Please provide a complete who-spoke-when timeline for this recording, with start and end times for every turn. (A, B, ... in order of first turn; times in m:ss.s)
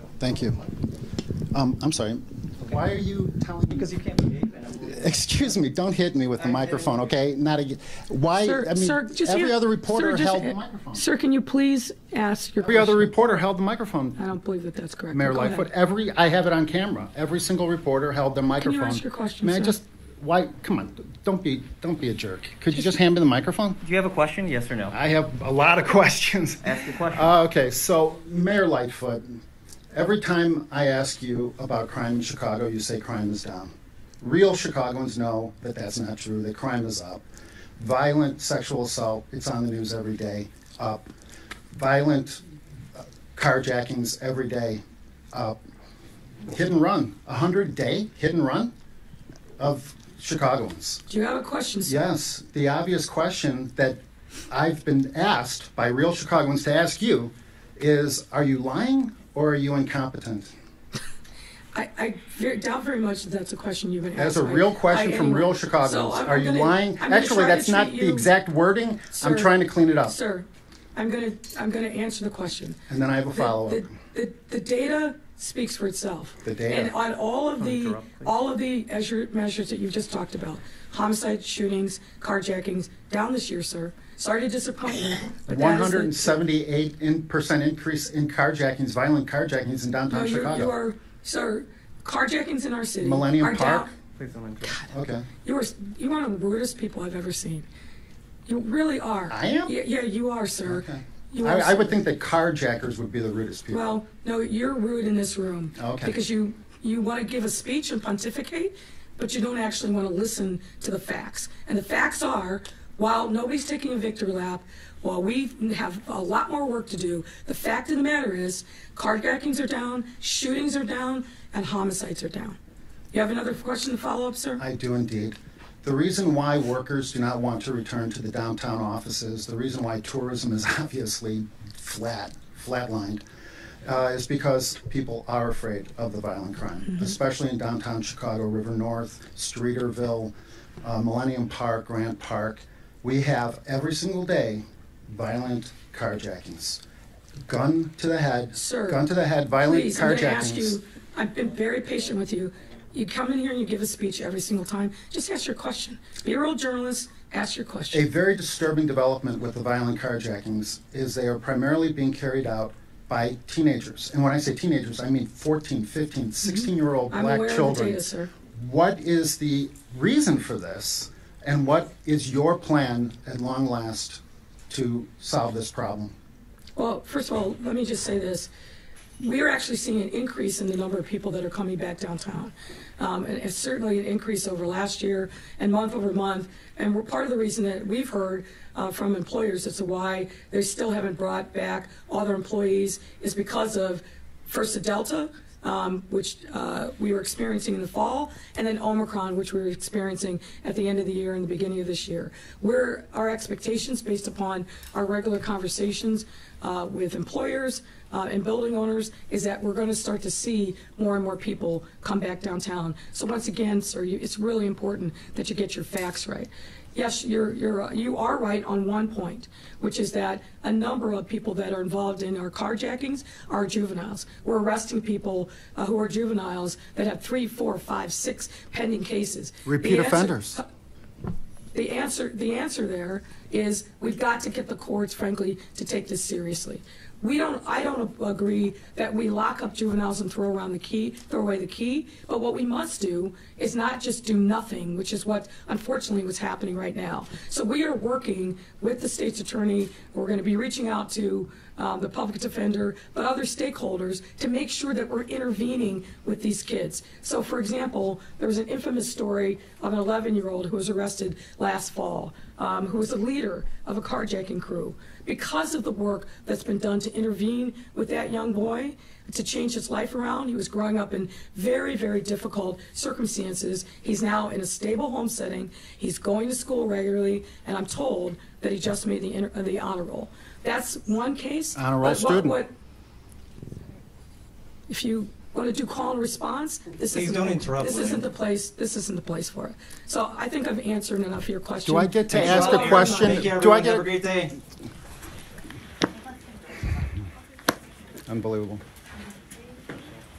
0:00.2-0:00.7 A
0:01.5-0:04.0 A
0:03.7-0:04.9 B
0:04.7-0:11.1 A
0:06.4-0:07.0 B
0:08.4-0:13.1 C
0:12.6-0:14.2 A
0:14.2-0:15.7 C
0:15.1-0:23.8 A
0:18.6-0:19.8 C
0:23.8-0:24.9 B
0:24.9-0:37.2 A
0:26.6-0:27.3 B
0:37.8-0:41.1 A
0:41.7-0:42.4 A
0:42.9-0:44.8 A
0:45.3-0:45.6 A
0:46.5-0:48.7 A
0:49.6-0:51.0 A
0:51.1-0:52.0 C
0:51.8-1:00.5 A
1:01.7-1:08.3 C
1:04.1-1:10.2 A
1:09.1-1:12.8 C
1:12.9-1:13.8 A
1:13.3-1:26.4 C
1:16.4-1:16.9 A
1:17.6-1:18.2 B
1:25.5-1:30.7 A
1:30.1-1:33.9 C
1:33.0-1:33.9 A
1:34.2-1:34.9 B
1:34.9-1:35.3 A
1:35.4-1:37.6 C
1:38.5-1:42.0 C
1:39.3-1:39.7 A
1:40.6-1:43.9 A
1:43.7-2:02.6 C
1:45.8-1:46.2 A
2:03.1-2:04.6 C
2:04.6-2:13.2 A
2:13.8-2:26.8 A
2:27.4-2:30.8 A
2:28.5-2:29.0 C
2:29.6-2:38.1 C
2:37.9-2:48.0 A
2:46.4-2:48.3 C
2:48.5-2:56.1 A
2:56.8-2:58.5 C
2:59.2-3:50.6 C
3:49.6-3:50.6 A
3:51.7-4:42.7 C
4:41.7-4:42.6 A
4:44.9-4:53.5 C
4:47.1-4:48.2 B
4:51.8-4:54.1 A
4:52.3-4:54.5 B
4:58.3-4:58.8 A